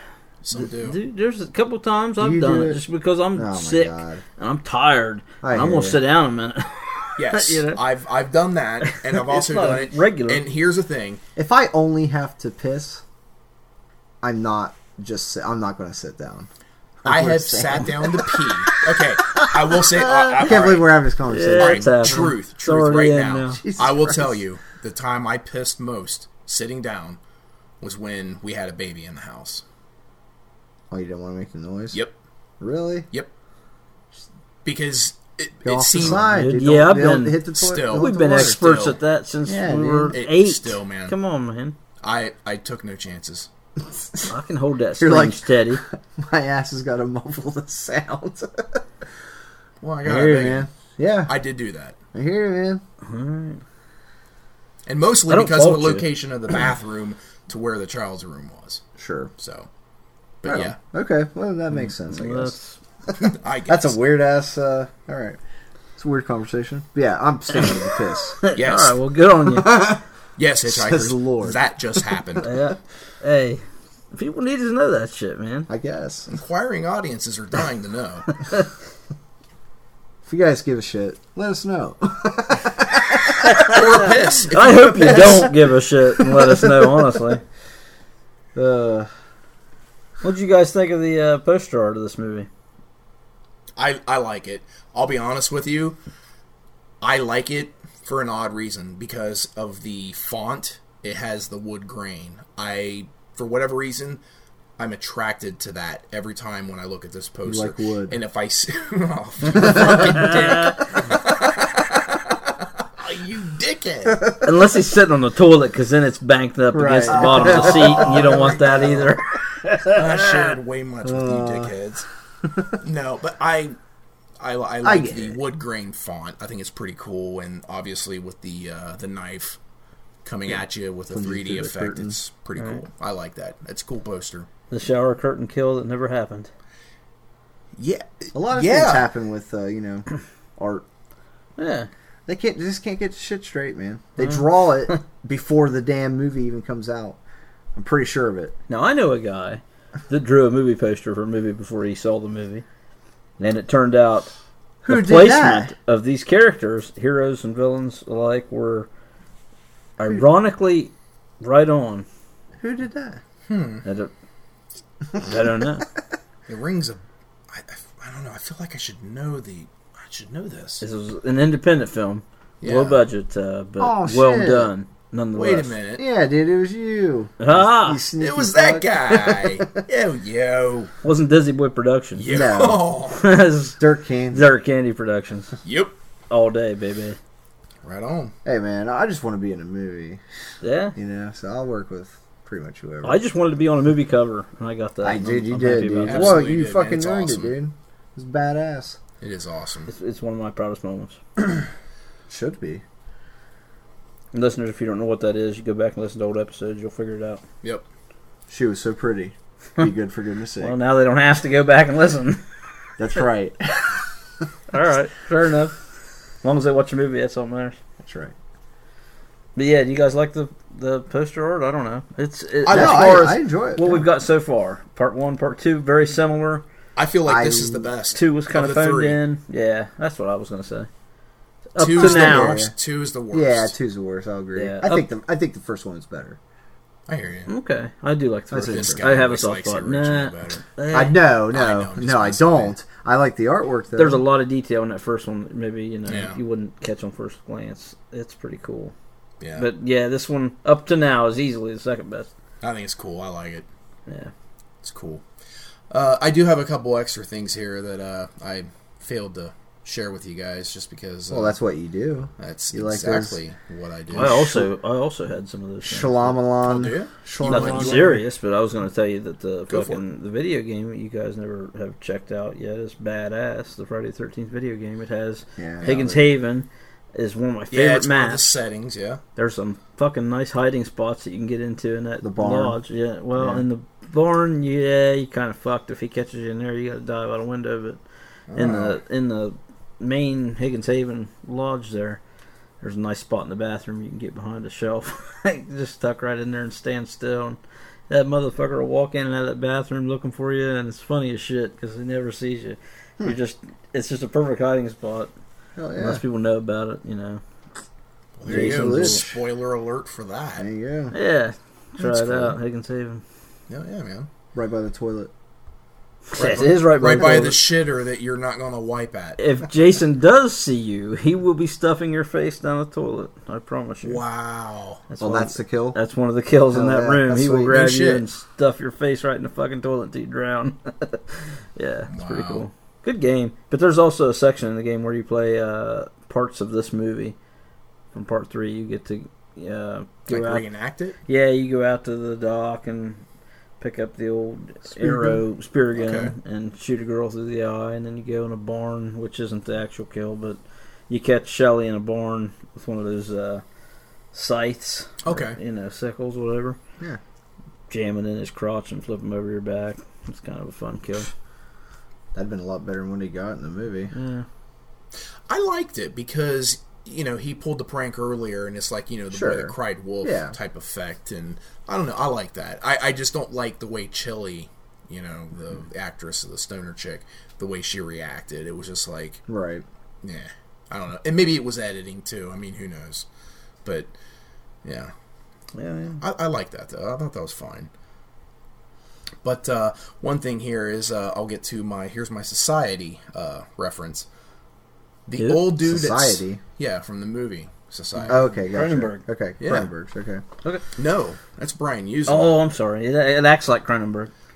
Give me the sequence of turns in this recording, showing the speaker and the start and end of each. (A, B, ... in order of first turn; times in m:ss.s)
0:00.4-0:01.0 A
0:00.5-0:07.8 B
0:02.2-0:02.8 C
0:03.3-0:04.2 C
0:05.4-0:06.0 C
0:07.2-0:11.2 A
0:08.8-0:10.4 B
0:11.4-0:13.0 C
0:14.2-0:16.5 C
0:17.0-0:22.3 C
0:17.0-0:20.9 A
0:21.3-0:23.6 B
0:21.5-0:27.2 A
0:23.6-0:24.4 C
0:27.8-0:29.6 A
0:30.9-0:32.0 C
0:32.6-0:33.1 C
0:34.6-0:36.3 A
0:35.6-0:38.6 C
0:36.0-0:41.8 B
0:37.5-0:39.0 A
0:39.4-0:40.2 C
0:40.1-0:41.1 A
0:42.0-0:43.5 A
0:43.9-0:44.3 C
0:44.3-0:45.8 B
0:45.0-0:48.8 C
0:49.8-0:50.7 A
0:50.0-0:51.3 C
0:51.3-0:52.0 A
0:52.1-0:52.8 C
0:53.0-0:53.6 B
0:54.8-0:58.8 A
0:55.3-0:56.0 B
0:59.0-0:59.3 C
0:59.4-0:59.7 A
1:00.4-1:00.8 A
1:00.4-1:02.6 C
1:01.8-1:02.8 B
1:03.1-1:05.4 C
1:03.2-1:04.0 A
1:06.0-1:08.4 C
1:08.4-1:10.0 B
1:08.5-1:09.0 A
1:09.5-1:10.0 C
1:10.4-1:12.5 A
1:10.6-1:11.6 C
1:12.4-1:15.7 B
1:15.7-1:16.3 C
1:16.3-1:18.3 A
1:20.2-1:24.1 C
1:23.4-1:27.4 B
1:23.6-1:25.5 A
1:25.0-1:25.5 C
1:26.2-1:27.1 C
1:28.5-1:29.1 C
1:30.2-1:32.5 B
1:33.8-1:36.0 A
1:37.0-1:44.2 A
1:44.8-1:54.2 A
1:47.4-1:48.2 C
1:49.6-1:50.0 C
1:50.0-1:50.8 B
1:54.4-2:00.3 B
1:56.7-1:59.2 C
1:57.1-1:59.0 A
1:59.8-2:02.1 A
2:01.0-2:01.7 C
2:02.4-2:02.8 C
2:02.7-2:03.8 A
2:04.4-2:09.6 A
2:04.8-2:05.4 C
2:10.2-2:14.5 A
2:10.5-2:12.1 C
2:14.7-2:16.5 B
2:17.8-2:19.1 A
2:18.3-2:20.8 C
2:21.6-2:21.9 B
2:22.3-2:27.2 C
2:27.7-2:28.5 C
2:28.7-2:32.6 B
2:33.4-2:34.3 B
2:34.8-2:35.7 C
2:34.9-2:38.9 B
2:40.0-2:42.0 B
2:42.6-2:43.2 C
2:43.5-2:43.8 A
2:43.8-2:44.1 B
2:45.2-2:45.8 B
2:46.5-2:50.8 A
2:50.8-2:55.7 B
2:52.6-2:53.0 A
2:53.8-2:54.7 C
2:55.3-2:56.0 A
2:56.0-2:59.8 C
2:57.4-2:58.0 B
2:58.2-3:00.9 A
3:01.0-3:02.4 B
3:02.2-3:03.2 A
3:02.3-3:02.9 C
3:03.1-3:03.8 B
3:03.8-3:04.5 C
3:04.3-3:05.5 B
3:05.6-3:05.9 A
3:06.3-3:07.2 B
3:07.8-3:08.3 A
3:08.4-3:10.2 C
3:10.6-3:11.0 B
3:11.0-3:13.2 C
3:13.0-3:16.4 B
3:15.0-3:19.0 C
3:16.1-3:17.5 A
3:19.2-3:19.9 A
3:19.9-3:21.2 B
3:22.3-3:22.8 C
3:24.3-3:27.4 B
3:28.5-3:30.7 C
3:30.6-3:32.4 B
3:33.0-3:34.0 C
3:34.7-3:35.8 B
3:36.4-3:37.8 B
3:38.0-3:38.3 C
3:39.6-3:46.6 B
3:42.6-3:43.3 A
3:42.7-3:44.0 C
3:47.0-3:49.2 A
3:47.2-3:47.9 C
3:48.1-3:50.9 B
3:51.7-3:52.6 B
3:51.8-3:53.7 A
3:51.9-3:52.7 C
3:53.3-3:56.4 C
3:54.5-3:55.0 B
3:57.1-3:57.5 A
3:57.5-4:01.2 B
3:58.5-3:59.1 C
3:58.7-4:00.6 A
4:00.9-4:04.2 C
4:01.5-4:02.7 A
4:04.0-4:08.9 B
4:06.1-4:06.4 A
4:09.4-4:09.7 A
4:09.6-4:12.3 B
4:12.6-4:13.6 A
4:14.1-4:14.3 B
4:14.8-4:15.2 A
4:15.9-4:21.6 A
4:21.3-4:23.4 C
4:22.4-4:24.5 A
4:24.1-4:26.4 B
4:24.2-4:24.7 C
4:25.8-4:28.2 C
4:26.6-4:28.1 A
4:27.4-4:38.5 B
4:29.7-4:30.0 A
4:35.6-4:36.2 C
4:37.7-4:39.2 A
4:39.4-4:48.0 B
4:42.2-4:42.8 C
4:43.4-4:43.6 C
4:48.5-4:49.0 A
4:48.5-4:52.2 B
4:52.8-5:05.3 B
5:05.8-5:06.2 C
5:06.0-5:07.4 B
5:08.4-5:10.7 A
5:08.4-5:09.2 B
5:08.4-5:09.3 C
5:10.6-5:11.1 C
5:11.1-5:13.2 B
5:13.7-5:14.3 A
5:14.5-5:15.3 C
5:16.3-5:17.6 B
5:16.3-5:19.4 A
5:17.1-5:17.4 C
5:19.4-5:24.2 B
5:24.0-5:25.0 A
5:25.1-5:37.4 B
5:25.2-5:26.0 C
5:26.7-5:27.8 C
5:27.7-5:28.2 A
5:32.1-5:32.6 A
5:38.1-5:40.6 B
5:40.3-5:41.2 A
5:41.3-5:43.2 B
5:43.8-5:53.6 B
5:45.0-5:45.4 C
5:45.9-5:46.3 A
5:54.3-5:56.8 B
5:55.2-5:55.6 A
5:57.9-6:01.3 B
6:02.3-6:04.1 C
6:04.1-6:04.4 B
6:05.5-6:19.4 A
6:09.3-6:10.5 C
6:19.5-6:19.8 C
6:20.2-6:23.2 A
6:23.8-6:24.1 A
6:24.8-6:25.1 A
6:25.7-6:26.2 B
6:26.2-6:27.9 A
6:29.4-6:34.2 A
6:35.3-6:38.4 A
6:35.4-6:35.6 B
6:35.8-6:36.6 C
6:38.2-6:39.2 B
6:38.3-6:40.4 C
6:39.6-6:39.9 A
6:41.0-6:42.5 A
6:42.3-6:44.3 B